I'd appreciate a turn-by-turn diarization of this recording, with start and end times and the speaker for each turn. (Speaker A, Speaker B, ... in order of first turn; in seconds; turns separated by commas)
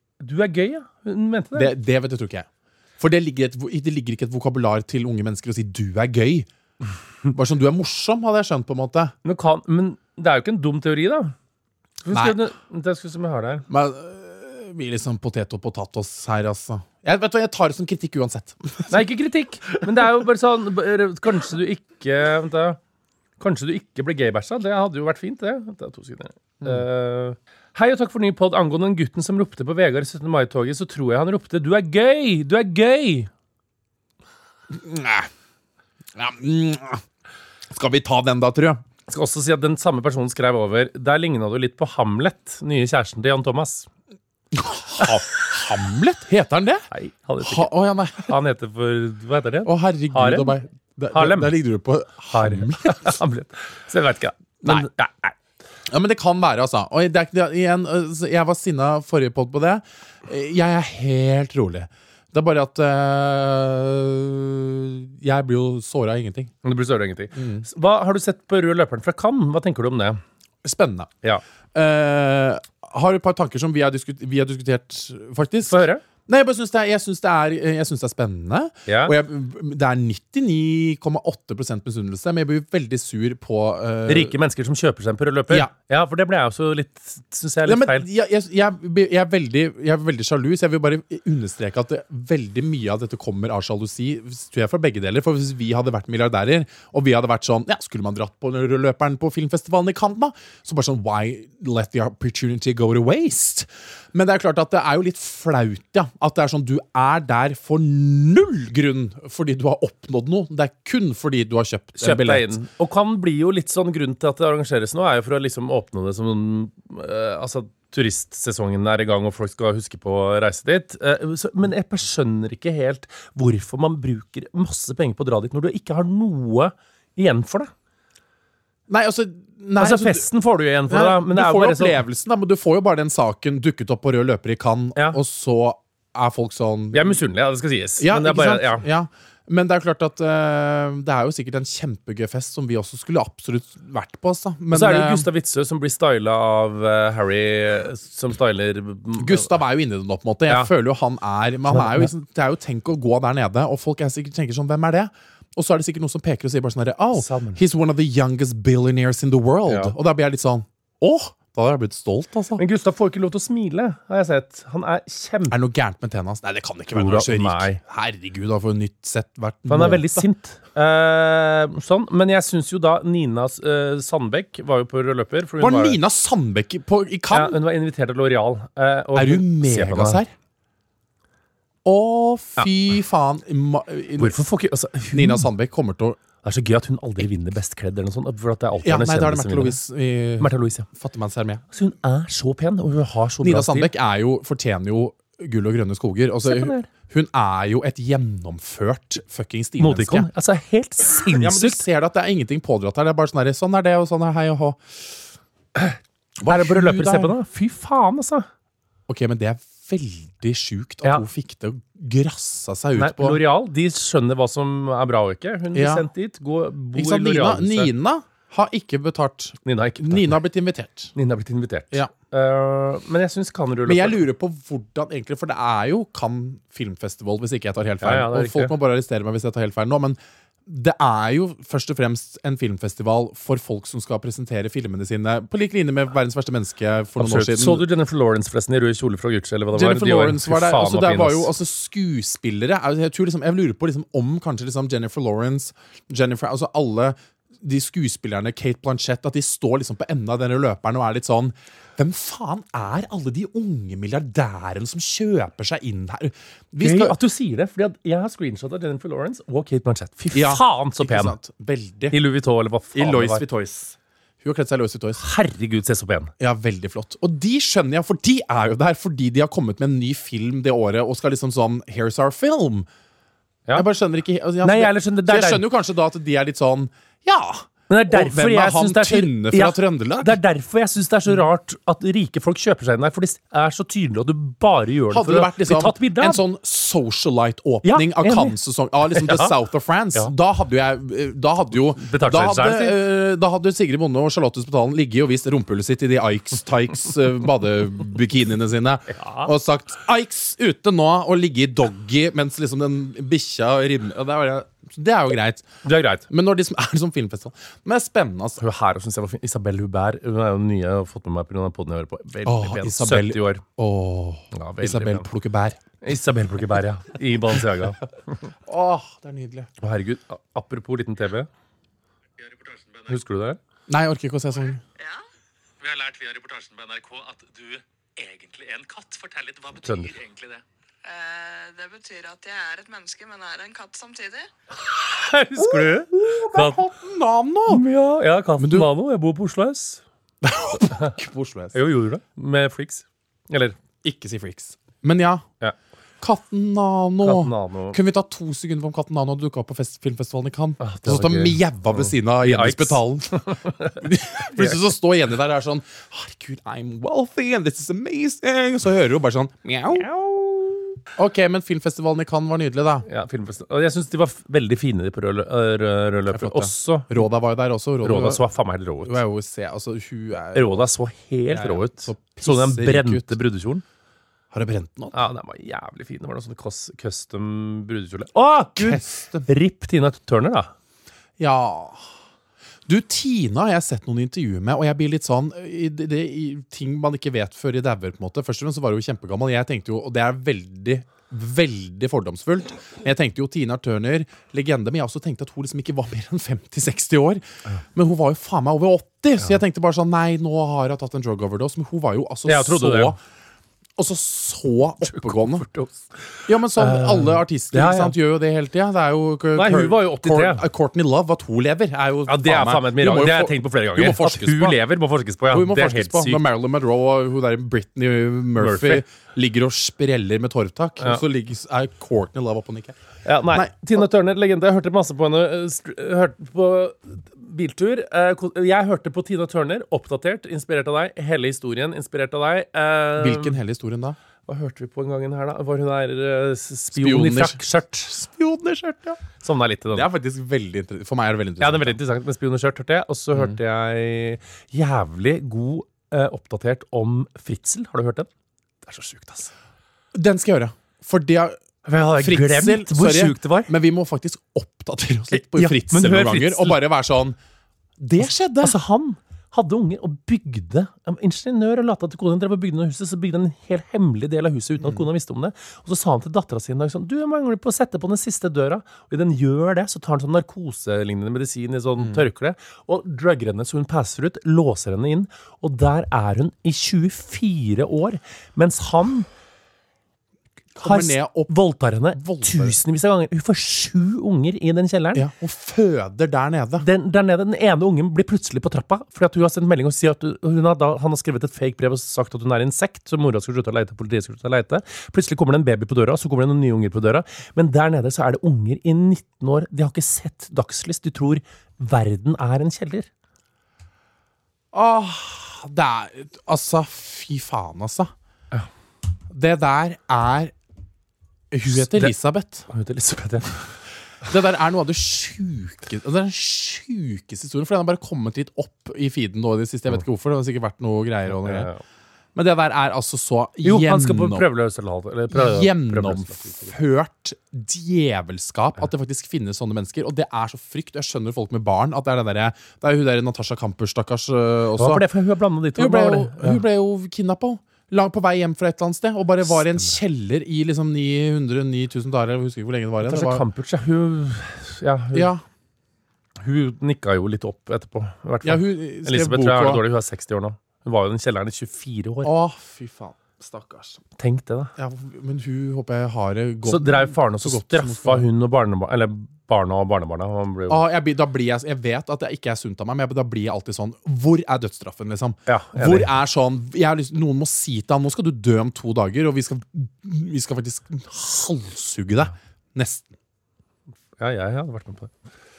Speaker A: 0.2-1.7, Speaker B: 1.5-2.5, Speaker B: 3.0-6.5, Speaker B: 7.3-9.1, Speaker A: 9.2-11.3, Speaker A: 12.0-13.7, Speaker B: 12.1-12.4, Speaker B: 13.7-19.0, Speaker A: 18.9-22.8, Speaker A: 23.4-33.3, Speaker B: 34.7-35.3, Speaker B: 36.1-37.0, Speaker B: 37.7-38.8, Speaker A: 39.1-43.9, Speaker B: 44.5-46.8, Speaker A: 46.9-50.6, Speaker B: 47.4-48.3, Speaker B: 49.6-53.1, Speaker A: 51.1-51.5, Speaker A: 52.3-55.3, Speaker B: 55.9-66.5, Speaker A: 66.6-70.2, Speaker B: 67.3-67.6, Speaker B: 70.6-71.1, Speaker B: 71.7-84.3, Speaker A: 75.7-76.0, Speaker A: 78.9-79.1, Speaker A: 84.1-88.1, Speaker B: 87.6-112.6, Speaker A: 112.0-127.7, Speaker B: 128.9-130.3, Speaker A: 129.8-132.0, Speaker B: 130.9-137.2, Speaker A: 136.9-138.8, Speaker B: 138.0-145.2, Speaker A: 144.7-149.5, Speaker B: 149.2-162.6, Speaker A: 151.7-152.1, Speaker A: 157.2-157.6, Speaker A: 159.7-159.9, Speaker A: 162.6-165.6, Speaker B: 165.5-170.2, Speaker A: 166.9-167.8, Speaker A: 169.7-176.0, Speaker B: 175.6-177.6, Speaker A: 177.3-180.2, Speaker B: 179.1-180.3, Speaker B: 181.8-184.4, Speaker A: 184.2-185.5, Speaker B: 185.1-186.2, Speaker A: 186.4-189.8, Speaker B: 188.8-191.6, Speaker A: 190.4-190.9, Speaker A: 191.7-193.9, Speaker B: 193.4-200.3, Speaker A: 196.4-196.9, Speaker A: 199.8-201.8, Speaker B: 201.2-204.8, Speaker A: 205.8-208.5, Speaker B: 206.4-207.3, Speaker B: 209.1-213.4, Speaker A: 212.9-217.9, Speaker B: 215.7-216.1, Speaker B: 216.9-221.1, Speaker A: 219.6-220.4, Speaker A: 221.1-224.2, Speaker B: 223.8-237.9, Speaker A: 228.0-228.7, Speaker A: 237.2-241.5, Speaker B: 239.7-257.1, Speaker A: 256.8-261.4, Speaker B: 260.3-262.2, Speaker A: 262.1-263.4, Speaker B: 262.9-265.2, Speaker A: 265.2-266.3, Speaker B: 266.4-272.9, Speaker B: 273.7-280.4, Speaker A: 274.6-275.6, Speaker A: 277.9-286.4, Speaker B: 285.1-305.7, Speaker A: 287.8-288.6, Speaker A: 289.1-289.5, Speaker A: 292.0-293.0, Speaker A: 299.1-299.5, Speaker A: 305.8-306.3, Speaker B: 306.3-308.6, Speaker A: 308.6-313.6, Speaker B: 312.4-315.8, Speaker A: 314.5-315.3, Speaker A: 316.0-318.5, Speaker B: 318.6-319.7, Speaker A: 319.8-321.5, Speaker C: 322.4-323.2, Speaker A: 323.1-323.6, Speaker B: 323.9-324.8, Speaker C: 325.8-330.6, Speaker A: 329.8-330.1, Speaker D: 331.0-334.5, Speaker A: 334.8-336.8, Speaker B: 335.6-337.8, Speaker A: 337.7-340.0, Speaker B: 338.6-338.9, Speaker B: 340.4-341.8, Speaker A: 340.7-341.2, Speaker A: 341.7-343.8, Speaker B: 344.0-345.4, Speaker B: 346.2-360.1, Speaker A: 347.2-348.0, Speaker A: 350.8-354.0, Speaker A: 359.9-360.6, Speaker B: 361.1-363.1, Speaker A: 363.0-367.2, Speaker B: 366.3-368.4, Speaker A: 368.0-369.2, Speaker B: 369.0-370.9, Speaker A: 370.5-373.8, Speaker B: 371.5-373.4, Speaker B: 374.5-375.2, Speaker A: 375.1-380.7, Speaker B: 378.8-379.5, Speaker B: 381.4-382.1, Speaker B: 382.9-397.4, Speaker B: 397.9-403.2, Speaker A: 402.4-403.1, Speaker B: 403.9-405.6, Speaker A: 405.1-408.1, Speaker B: 406.5-414.8, Speaker A: 409.5-410.6, Speaker A: 412.3-416.4, Speaker B: 415.5-422.9, Speaker A: 418.6-419.0, Speaker A: 423.2-433.6, Speaker B: 423.5-424.0, Speaker B: 433.2-434.2, Speaker A: 434.4-438.1, Speaker B: 436.9-439.2, Speaker A: 439.4-440.1, Speaker B: 439.9-442.0, Speaker A: 441.6-448.3, Speaker A: 448.8-449.5, Speaker B: 450.1-451.6, Speaker A: 451.8-453.7, Speaker B: 452.2-457.4, Speaker A: 455.3-456.8, Speaker B: 458.0-458.8, Speaker A: 458.6-479.3, Speaker B: 480.7-481.6, Speaker A: 480.8-485.3, Speaker B: 482.1-482.8, Speaker B: 485.1-486.8, Speaker A: 486.8-503.1, Speaker B: 504.7-508.1, Speaker B: 509.3-510.5, Speaker B: 511.5-512.7, Speaker A: 511.7-512.1, Speaker A: 512.7-513.6, Speaker B: 514.2-521.7, Speaker A: 521.3-521.8, Speaker B: 522.3-524.5, Speaker A: 523.6-526.7, Speaker B: 525.3-535.0, Speaker A: 534.8-536.6, Speaker B: 535.8-543.4, Speaker A: 539.5-540.0, Speaker A: 543.0-545.3, Speaker B: 545.1-545.4, Speaker A: 546.4-552.3, Speaker B: 548.4-549.8, Speaker B: 552.2-554.0, Speaker A: 554.2-554.7, Speaker B: 554.8-558.2, Speaker A: 556.6-560.8, Speaker B: 560.7-573.1, Speaker A: 565.5-566.1, Speaker A: 574.2-575.1